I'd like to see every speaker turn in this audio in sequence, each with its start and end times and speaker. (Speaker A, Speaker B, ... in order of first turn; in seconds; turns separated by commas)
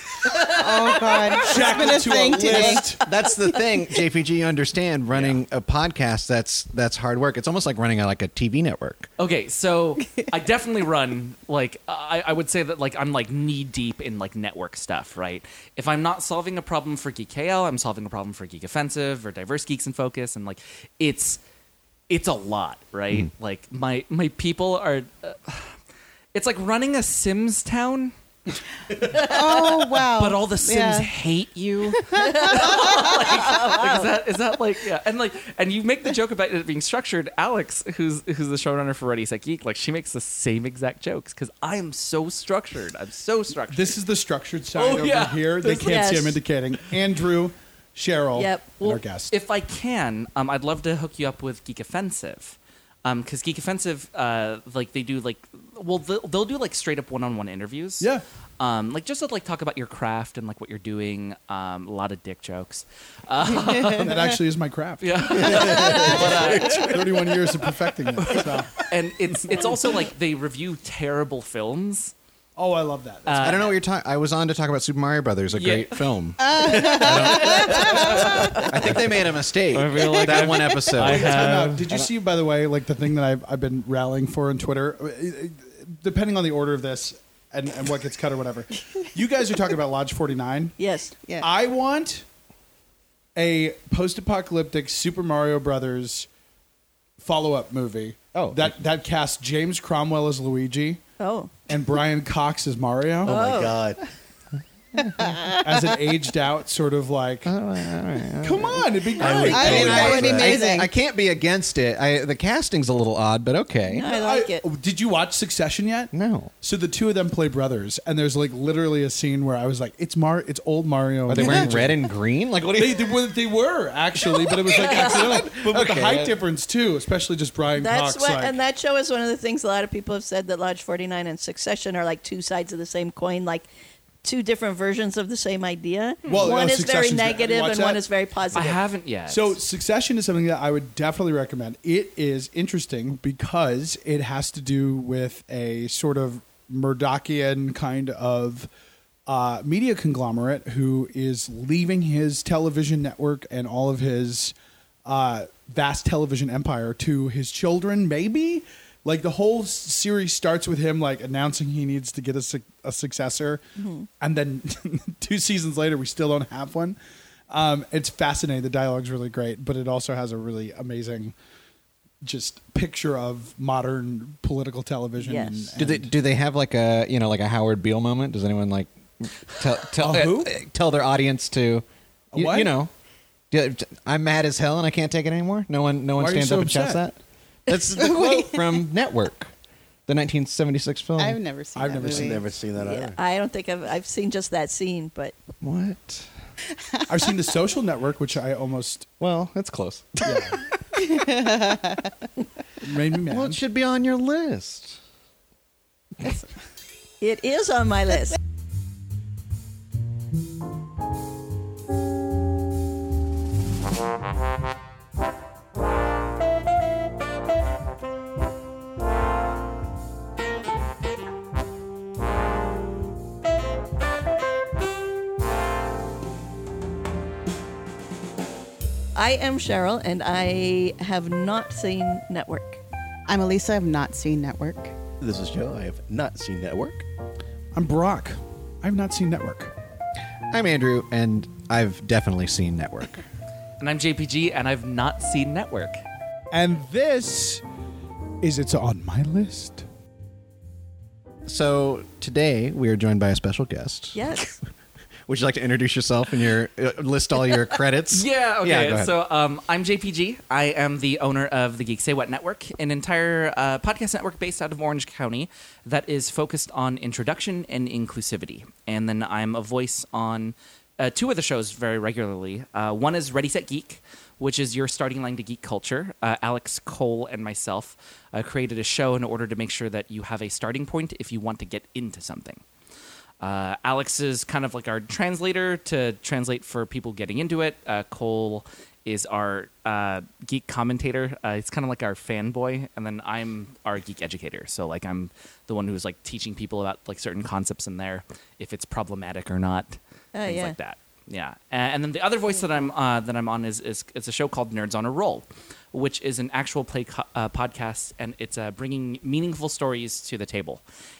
Speaker A: 0.4-2.9, Speaker B: 1.3-3.0, Speaker C: 2.5-9.1, Speaker D: 5.1-5.4, Speaker D: 9.2-21.4, Speaker D: 22.1-25.7, Speaker D: 26.3-28.1, Speaker A: 29.0-31.1, Speaker D: 29.1-44.0, Speaker A: 31.8-33.1, Speaker E: 32.2-34.1, Speaker B: 43.7-49.3, Speaker D: 44.7-46.0, Speaker E: 45.8-46.4, Speaker E: 48.4-49.0, Speaker D: 49.3-64.1, Speaker A: 63.5-64.0, Speaker B: 64.0-68.7, Speaker D: 65.0-67.2, Speaker F: 65.4-67.4, Speaker D: 68.3-72.1, Speaker B: 72.5-73.7, Speaker D: 73.2-73.6, Speaker C: 73.4-82.1, Speaker D: 75.5-76.0, Speaker A: 76.4-78.4, Speaker D: 76.7-79.0, Speaker D: 79.7-81.8, Speaker B: 81.0-90.8, Speaker E: 90.8-91.1, Speaker B: 91.4-92.2, Speaker B: 93.3-96.3, Speaker B: 97.2-101.0, Speaker C: 98.3-98.7, Speaker E: 101.2-101.5, Speaker B: 101.7-103.4, Speaker E: 103.2-103.8, Speaker F: 103.2-104.0, Speaker C: 105.0-105.4, Speaker A: 105.2-105.6, Speaker B: 105.6-107.5, Speaker C: 107.4-114.1, Speaker B: 108.4-110.2, Speaker E: 109.2-110.6, Speaker F: 109.2-110.5, Speaker A: 109.3-110.9, Speaker E: 113.9-114.6, Speaker B: 114.0-122.1, Speaker C: 116.1-116.5, Speaker C: 121.2-123.2, Speaker B: 122.7-128.6, Speaker E: 124.3-125.5, Speaker C: 124.7-126.4, Speaker E: 127.8-133.7, Speaker E: 134.2-138.8, Speaker D: 136.2-136.5, Speaker B: 136.3-138.0, Speaker D: 138.5-139.6, Speaker B: 139.3-148.7, Speaker B: 149.3-154.5, Speaker B: 155.0-163.6, Speaker E: 163.8-164.1, Speaker B: 164.2-167.0, Speaker B: 167.5-171.3, Speaker B: 172.2-176.1, Speaker E: 175.2-175.7, Speaker C: 175.8-182.9, Speaker B: 180.0-180.5, Speaker B: 182.3-182.8, Speaker C: 183.5-189.5, Speaker B: 186.2-187.1, Speaker A: 187.9-188.7, Speaker C: 190.1-191.4, Speaker A: 191.2-192.4, Speaker B: 191.7-192.5, Speaker F: 192.0-193.2, Speaker E: 192.8-195.3, Speaker C: 195.6-196.3, Speaker B: 197.1-199.1, Speaker C: 199.2-200.6, Speaker B: 200.2-200.6, Speaker A: 201.0-202.1, Speaker B: 202.8-203.6, Speaker C: 203.3-205.0, Speaker E: 207.2-208.4, Speaker E: 229.2-232.8, Speaker A: 233.3-234.9, Speaker F: 235.2-237.0, Speaker B: 237.7-239.7, Speaker C: 240.5-243.2, Speaker D: 243.8-246.0, Speaker B: 246.5-247.6, Speaker B: 248.4-249.8, Speaker C: 251.4-254.4, Speaker E: 254.1-254.6, Speaker C: 255.3-259.2, Speaker D: 258.1-282.6, Speaker D: 283.4-310.8, Speaker E: 300.3-300.7